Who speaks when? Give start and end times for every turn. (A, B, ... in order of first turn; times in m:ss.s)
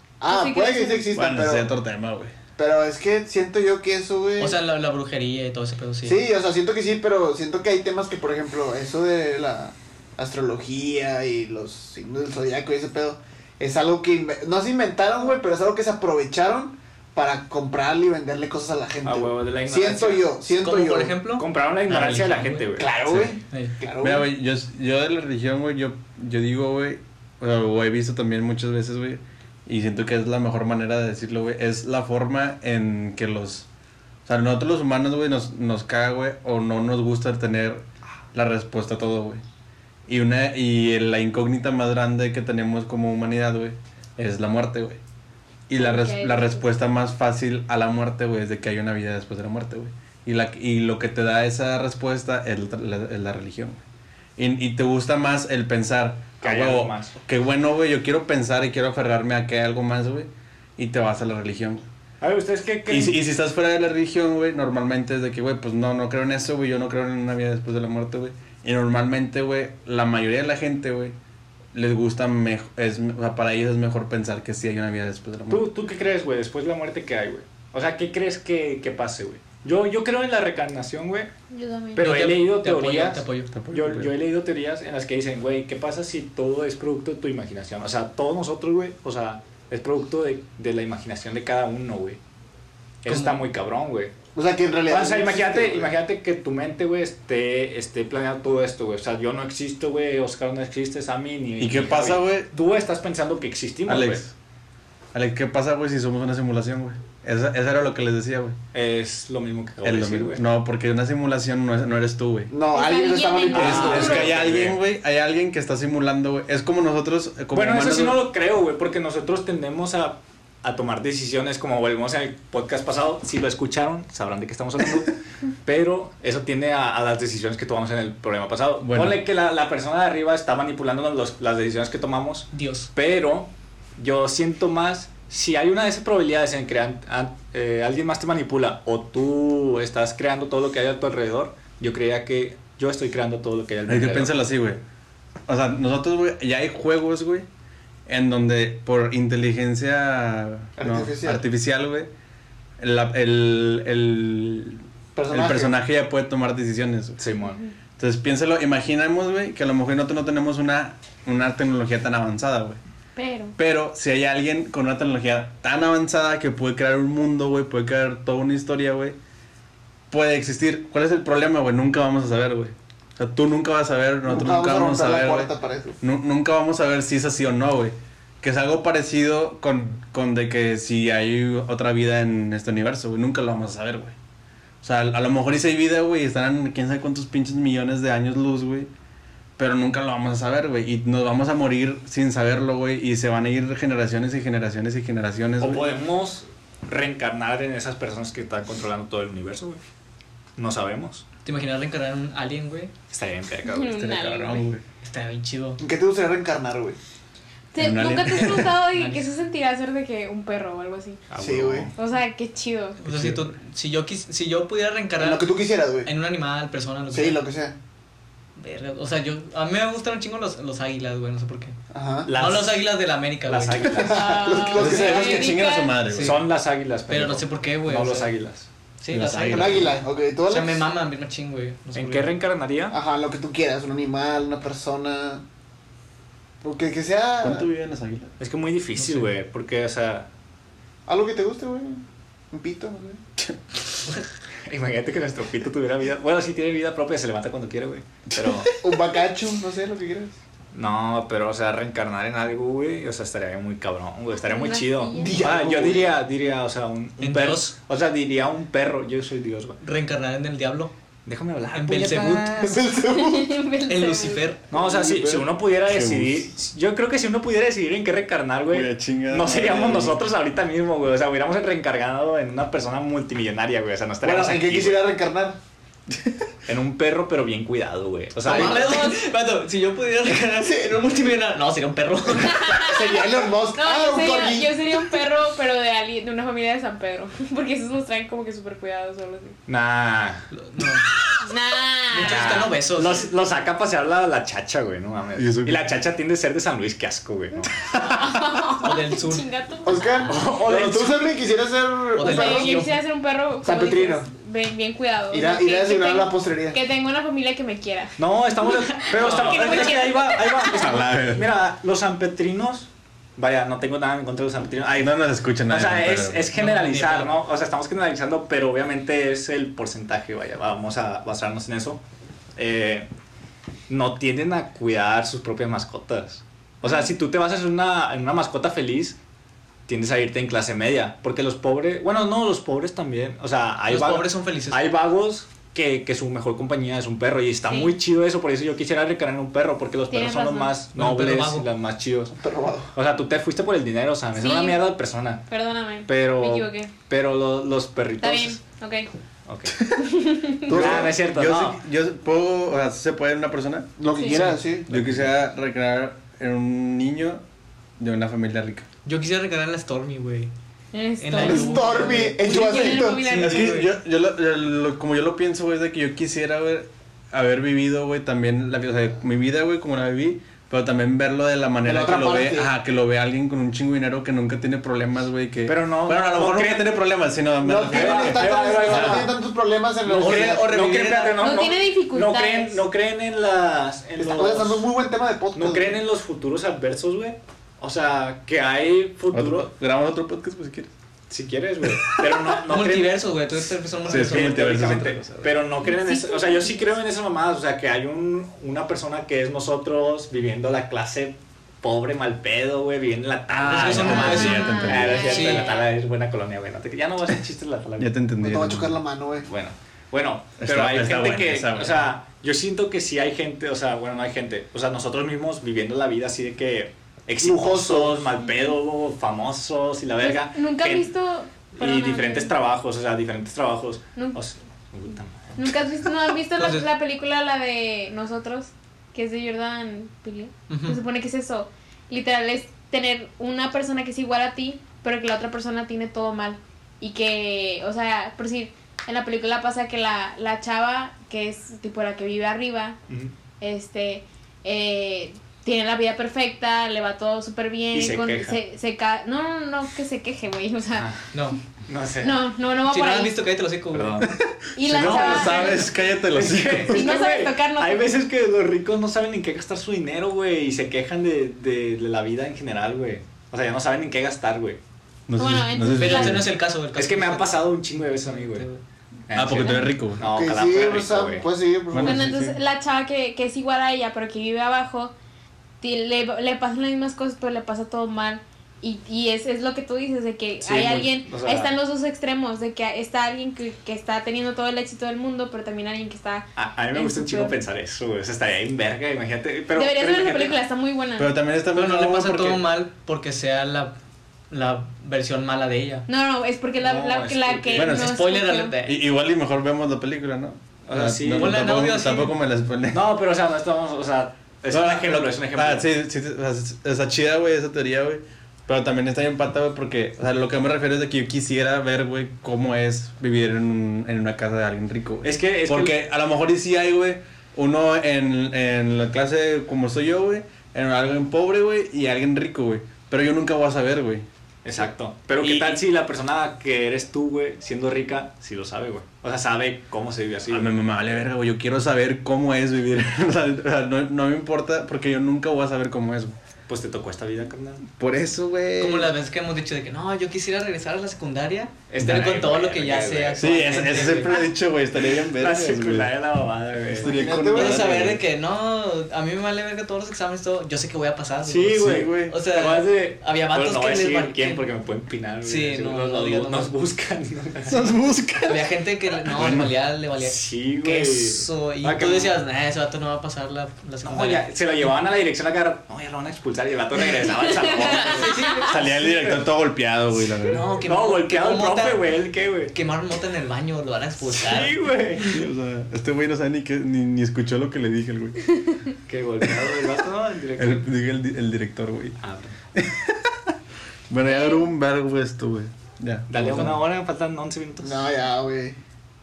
0:00.2-0:01.7 A
0:00.3-0:01.0 B
0:01.1-0:02.3 C
0:02.6-0:04.6 A
0:04.4-0:06.2 D
0:06.0-0:21.2 A
0:19.0-0:20.3 E
0:20.6-0:22.7 D
0:21.4-0:22.9 E
0:22.8-0:24.3 A
0:23.0-0:23.4 C
0:23.5-0:23.8 D
0:24.0-0:33.6 C
0:34.2-0:39.4 C
0:40.1-0:45.0 C
0:45.7-0:53.8 C
0:45.8-0:46.6 B
0:54.4-1:01.8 C
0:56.4-0:57.2 E
1:02.2-1:03.2 E
1:02.9-1:11.1 C
1:11.7-1:15.6 C
1:15.5-1:21.3 E
1:21.5-1:22.0 B
1:21.9-1:32.2 E
1:22.0-1:23.5 D
1:23.5-1:24.1 C
1:33.0-1:34.1 E
1:33.1-1:33.4 D
1:34.3-1:35.9 A
1:34.9-1:44.2 E
1:41.6-1:42.5 C
1:43.9-1:44.3 C
1:45.1-1:48.6 C
1:48.7-1:50.4 E
1:49.8-1:52.5 C
1:52.5-1:54.3 A
1:52.7-1:54.4 B
1:53.5-1:54.8 E
1:53.5-1:58.2 C
1:57.5-2:24.3 E
2:08.8-2:09.2 C
2:12.5-2:12.9 D
2:23.9-2:24.8 C
2:25.5-2:27.4 C
2:28.1-2:32.1 C
2:30.8-2:31.4 A
2:32.8-2:37.2 C
2:35.1-2:35.8 A
2:37.2-2:37.6 E
2:38.0-2:42.8 C
2:43.2-2:43.6 B
2:43.6-2:49.2 C
2:50.1-3:04.1 C
2:54.2-2:56.0 A
3:04.8-3:08.9 C
3:09.6-3:15.9 C
3:15.6-3:19.8 E
3:20.6-3:21.2 E
3:21.4-3:22.9 D
3:23.1-3:24.1 E
3:23.7-3:24.7 B
3:23.9-3:24.8 C
3:25.0-3:25.8 D
3:25.8-3:27.0 A
3:27.7-3:31.2 B
3:27.8-3:28.8 C
3:28.4-3:29.3 D
3:31.3-3:31.9 E
3:31.4-3:31.9 A
3:32.0-3:33.0 B
3:33.0-3:35.5 D
3:33.0-3:33.5 C
3:35.2-3:36.1 A
3:36.0-3:37.4 D
3:37.1-3:37.8 A
3:38.6-3:41.8 D
3:41.9-3:42.3 A
3:42.2-3:42.9 E
3:42.3-3:43.9 D
3:43.5-3:45.4 E
3:43.9-3:45.5 A
3:44.1-3:46.0 B
3:44.7-3:46.4 C
3:46.1-3:46.4 D
3:46.2-3:48.7 E
3:47.1-3:48.3 D
3:49.0-3:50.0 D
3:49.1-3:49.9 C
3:49.5-3:50.8 A
3:50.5-3:52.3 D
3:51.9-3:53.0 E
3:52.9-3:55.4 A
3:56.6-3:57.7 A
3:57.4-3:58.3 C
3:58.4-4:00.3 E
3:59.0-3:59.3 D
4:01.1-4:03.2 A
4:04.6-4:08.7 E
4:08.4-4:08.7 C
4:08.8-4:10.3 A
4:10.7-4:19.8 E
4:14.4-4:15.5 B
4:15.2-4:16.2 A
4:17.2-4:17.7 D
4:19.8-4:20.9 D
4:21.2-4:22.7 E
4:21.7-4:22.8 D
4:22.6-4:23.6 A
4:23.1-4:24.5 B
4:23.9-4:24.6 D
4:24.7-4:25.5 A
4:24.7-4:35.0 E
4:25.8-4:26.5 C
4:28.7-4:30.2 C
4:34.2-4:35.6 A
4:36.7-4:39.0 E
4:38.4-4:39.2 B
4:38.4-4:42.8 D
4:42.4-4:43.1 B
4:42.8-4:44.9 A
4:43.7-4:49.6 B
4:49.7-4:50.5 E
4:50.5-4:51.0 D
4:51.4-4:52.7 B
4:52.1-4:53.3 D
4:52.2-4:57.7 E
4:55.4-4:55.9 C
4:58.0-5:00.2 B
4:58.8-4:59.5 D
4:59.8-5:02.8 A
5:00.2-5:01.3 E
5:02.1-5:03.0 D
5:02.2-5:11.0 B
5:03.6-5:04.3 A
5:05.3-5:06.8 A
5:08.2-5:22.0 E
5:09.1-5:10.2 D
5:10.7-5:11.5 C
5:14.9-5:16.5 C
5:16.5-5:17.3 D
5:22.6-5:23.1 E
5:23.9-5:29.2 E
5:29.9-5:42.4 E
5:33.9-5:34.8 D
5:37.7-5:38.0 B
5:40.1-5:40.7 B
5:40.9-5:41.7 D
5:42.3-5:42.9 A
5:42.9-5:45.5 E
5:44.3-5:44.8 B
5:45.5-5:46.9 B
5:46.1-5:48.6 E
5:48.2-5:49.1 B
5:49.4-5:49.8 E
5:50.0-5:50.8 B
5:50.7-5:51.2 A
5:50.7-5:51.8 E
5:50.7-5:53.9 C
5:54.0-5:55.3 A
5:54.1-5:54.5 B
5:54.2-5:54.6 D
5:54.9-5:57.4 C
5:58.0-5:58.8 C
5:59.0-6:00.5 D
6:00.9-6:03.9 B
6:01.2-6:03.9 D
6:01.4-6:03.3 A
6:03.3-6:19.2 C
6:11.8-6:12.7 A
6:15.6-6:17.0 E
6:17.6-6:20.8 A
6:17.8-6:19.3 E
6:20.0-6:24.9 E
6:20.1-6:21.4 D
6:21.4-6:22.8 B
6:24.2-6:26.0 A
6:25.5-6:29.7 E
6:29.3-6:30.9 C
6:31.3-6:33.3 E
6:31.9-6:32.2 C
6:32.6-6:34.9 D
6:34.0-6:35.6 C
6:34.0-6:48.1 E
6:35.8-6:36.8 B
6:43.5-6:45.8 D
6:43.7-6:45.4 C
6:43.9-6:45.9 B
6:48.0-6:49.0 C
6:48.4-6:49.5 A
6:49.4-7:01.1 E
6:50.6-6:52.0 C
6:57.4-6:58.3 A
7:00.2-7:02.5 B
7:01.7-7:05.9 E
7:05.5-7:23.0 B
7:06.6-7:06.9 D
7:10.7-7:11.0 D
7:23.6-7:31.1 B
7:27.9-7:28.6 E
7:31.0-7:31.2 E
7:31.3-7:31.6 D
7:31.9-7:32.4 E
7:32.2-7:33.4 B
7:32.9-7:34.2 D
7:33.9-7:34.4 E
7:34.7-7:35.9 B
7:34.9-7:37.1 C
7:34.9-7:44.8 E
7:35.0-7:35.4 D
7:36.9-7:38.1 B
7:45.3-7:46.5 C
7:45.4-7:46.4 B
7:45.9-7:47.7 D
7:46.9-7:48.6 E
7:48.2-7:48.8 D
7:49.3-7:51.5 E
7:49.3-7:50.2 C
7:50.2-7:52.3 A
7:51.9-7:52.6 C
7:52.0-7:55.1 B
7:55.8-8:07.6 B
8:00.6-8:01.7 E
8:06.6-8:10.6 E
8:09.7-8:11.3 B
8:11.2-8:12.6 C
8:11.7-8:13.9 D
8:14.5-8:16.1 D
8:16.1-8:18.8 B
8:16.8-8:18.0 E
8:17.8-8:18.2 C
8:17.8-8:19.0 D
8:18.8-8:23.0 C
8:20.9-8:21.7 E
8:21.3-8:22.4 D
8:22.9-8:25.9 E
8:24.7-8:44.2 C
8:35.2-8:36.0 E
8:44.6-8:50.7 E
8:45.4-8:45.8 C
8:50.5-8:56.4 C
8:56.7-8:57.8 E
8:58.0-8:59.1 C
8:58.8-9:04.4 D
9:01.9-9:04.2 E
9:03.4-9:06.1 C
9:05.1-9:07.1 E
9:06.9-9:08.2 C
9:07.0-9:08.1 A
9:07.5-9:14.6 D
9:11.4-9:17.8 E
9:11.8-9:12.3 C
9:15.4-9:16.7 D
9:17.7-9:19.7 C
9:18.4-9:24.5 D
9:20.2-9:22.4 E
9:24.0-9:29.5 E
9:27.5-9:28.3 B
9:27.8-9:28.7 D
9:28.7-9:30.6 C
9:30.5-9:32.1 D
9:30.8-9:32.7 E
9:32.7-9:34.7 D
9:34.3-9:35.3 E
9:35.2-9:38.4 C
9:39.1-9:40.9 E
9:40.6-9:42.2 C
9:42.2-9:42.5 E
9:42.8-9:43.3 C
9:44.1-9:46.8 C
9:44.2-9:44.7 B
9:46.3-9:48.1 E
9:46.3-9:46.7 A
9:47.8-9:48.8 A